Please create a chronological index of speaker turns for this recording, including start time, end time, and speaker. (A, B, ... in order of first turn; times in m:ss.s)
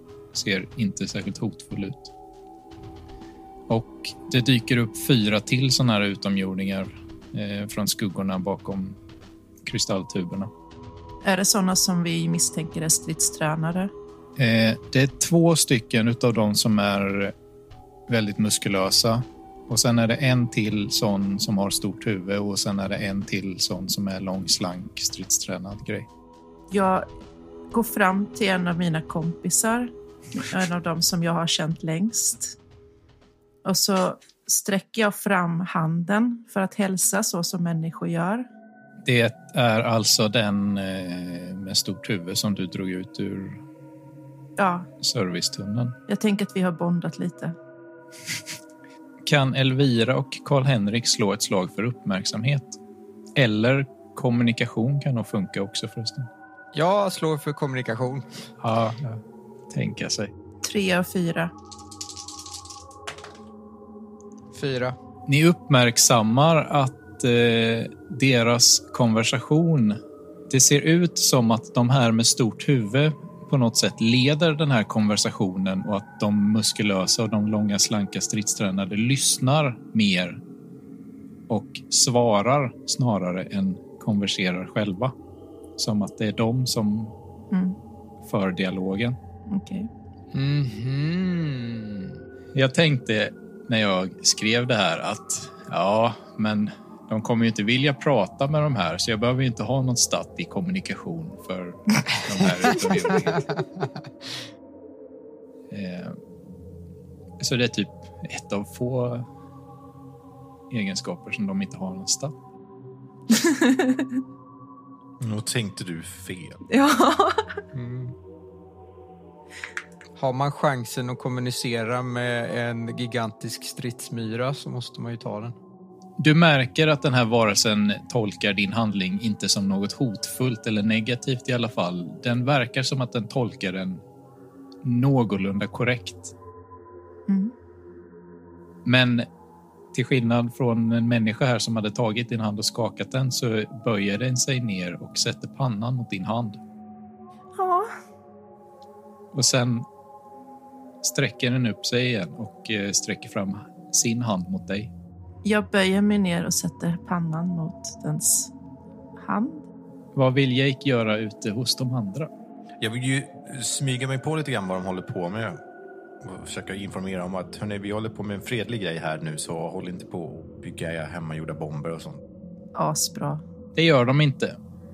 0:00.3-0:02.1 A
0:03.7-0:09.0 A
0:09.6-0:10.5 A
0:11.2-0:13.9 B
0:14.4-0:17.3 A
0:18.1-0:26.1 A
0:26.7-0:27.1 B
0:27.7-0:32.6 B
0:33.6-0:38.5 B
0:39.0-0:43.6 A
0:44.6-0:44.9 B
0:45.0-0:46.0 A
0:46.1-0:47.6 B
0:49.2-0:52.8 A
0:53.4-0:56.3 A
0:56.7-0:58.2 C
0:58.6-1:00.3 A
1:00.6-1:01.5 B
1:04.5-1:05.0 C
1:05.3-1:10.0 A
1:10.5-1:20.4 A
1:21.5-1:25.1 A
1:25.8-1:27.1 A
1:27.5-1:27.8 B
1:28.2-1:29.2 A
1:29.5-1:29.9 B
1:30.3-1:32.2 C
1:32.6-1:43.5 A
1:45.7-1:46.2 A
1:47.4-1:49.3 A
1:50.7-1:52.4 A
1:53.3-1:54.2 B
1:55.2-1:56.6 D
1:56.7-1:57.6 B
1:57.7-1:58.1 C
2:00.2-2:05.6 C
2:06.2-2:14.0 A
2:14.8-2:16.3 A
2:17.3-2:17.5 B
2:18.8-2:19.3 A
2:19.9-2:26.6 A
2:27.6-2:27.9 B
2:29.3-2:29.9 A
2:31.0-2:34.9 A
2:35.4-2:38.5 B
2:39.2-2:39.7 B
2:40.2-2:42.3 A
2:42.8-2:45.6 D
2:46.2-2:52.2 D
2:52.8-2:53.4 B
2:53.8-2:54.6 A